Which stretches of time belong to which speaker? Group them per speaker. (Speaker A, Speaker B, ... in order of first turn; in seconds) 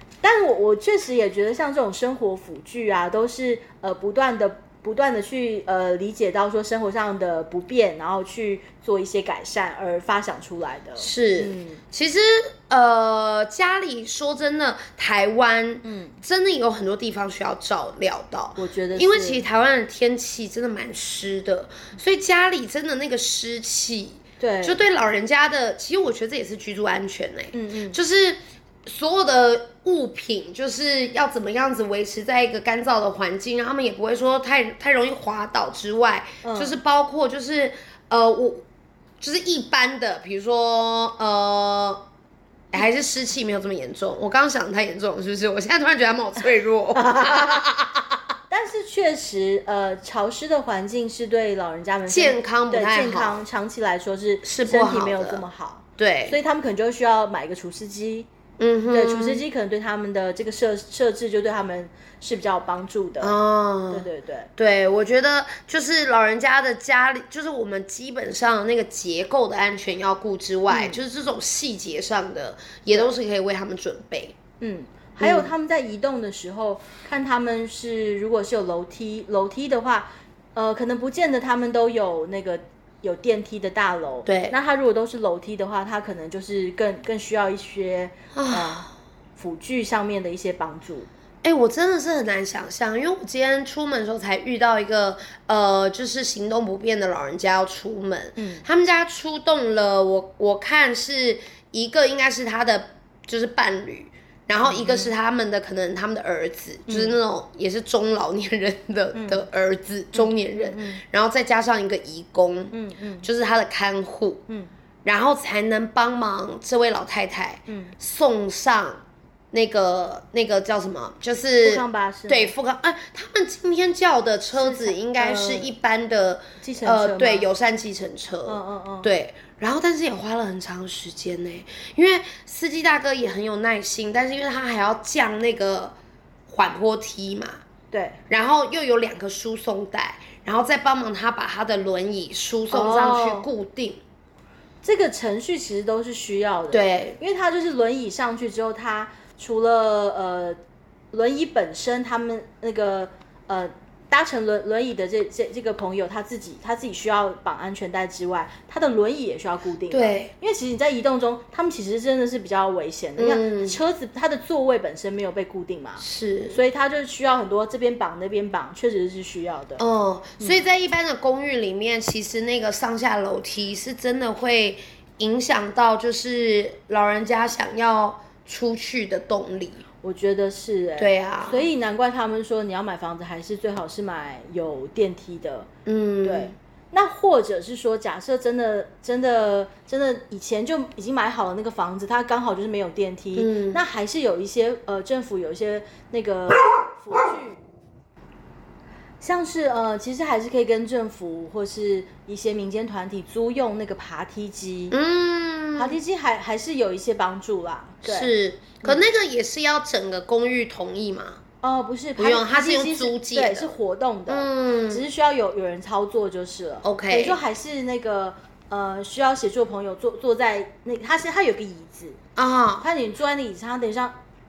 Speaker A: 0.2-11.8, 15.8-16.2, 18.6-19.4, 24.4-24.8, 27.5-28.0, 36.4-36.8, 46.9-47.7, 48.5-58.3, 58.9-63.4, 63.9-64.5, 70.7-71.0, 74.6-91.1, 98.4-98.6, 104.6-105.1, 106.9-107.2, 109.1-109.4, 110.1-111.0, 112.7-113.3, 117.7-117.9, 121.6-122.5, 124.5-125.7, 126.6-127.5, 128.4-129.1, 137.9-138.2, 142.7-143.5, 144.8-150.6, 151.1-169.8, 180.0-185.7, 186.2-197.6, 199.2-205.0, 205.7-208.3, 211.6-222.2, 222.8-224.1
Speaker B: 11.0-38.6, 39.2-42.0, 42.7-48.1, 52.1-53.4, 54.4-55.4, 56.0-56.4, 58.6-59.4, 63.2-74.3, 75.2-75.5, 84.2-84.5, 88.3-88.9, 91.4-114.4, 115.0-135.9, 136.5-137.6, 138.3-144.0, 146.7-147.2, 159.9-160.3, 163.2-163.8, 166.0-166.6, 169.8-179.8, 181.0-181.7, 185.8-186.5, 193.3-193.8, 204.9-206.0, 208.0-211.4, 212.2-213.7, 214.3-215.0, 216.8-217.4, 222.3-222.9